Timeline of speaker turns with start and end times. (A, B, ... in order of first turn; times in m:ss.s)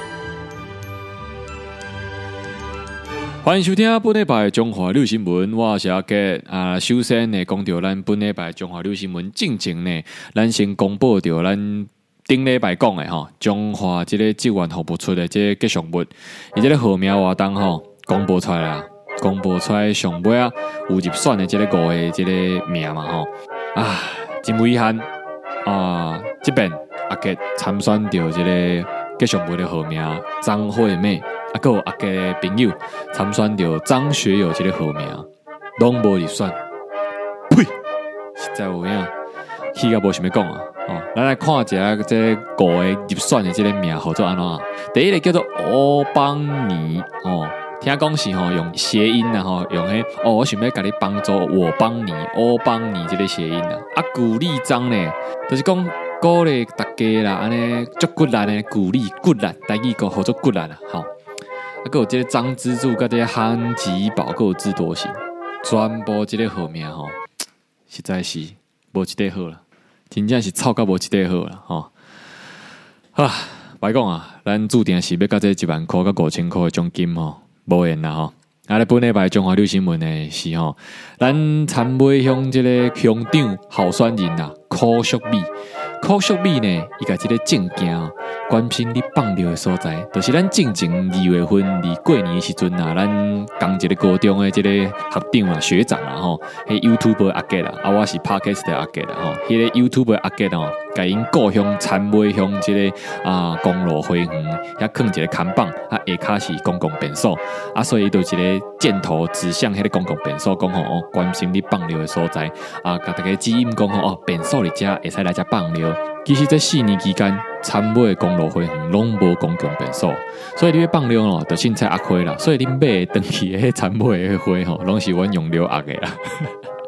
0:03.4-0:25.1 A
0:25.6-0:36.6 A
0:38.4-0:39.1 A
0:39.7-1:01.1 A
1:01.8-1:07.2 A
1:07.9-1:11.9 A
1:13.1-1:25.5 A
1:26.0-2:06.5 A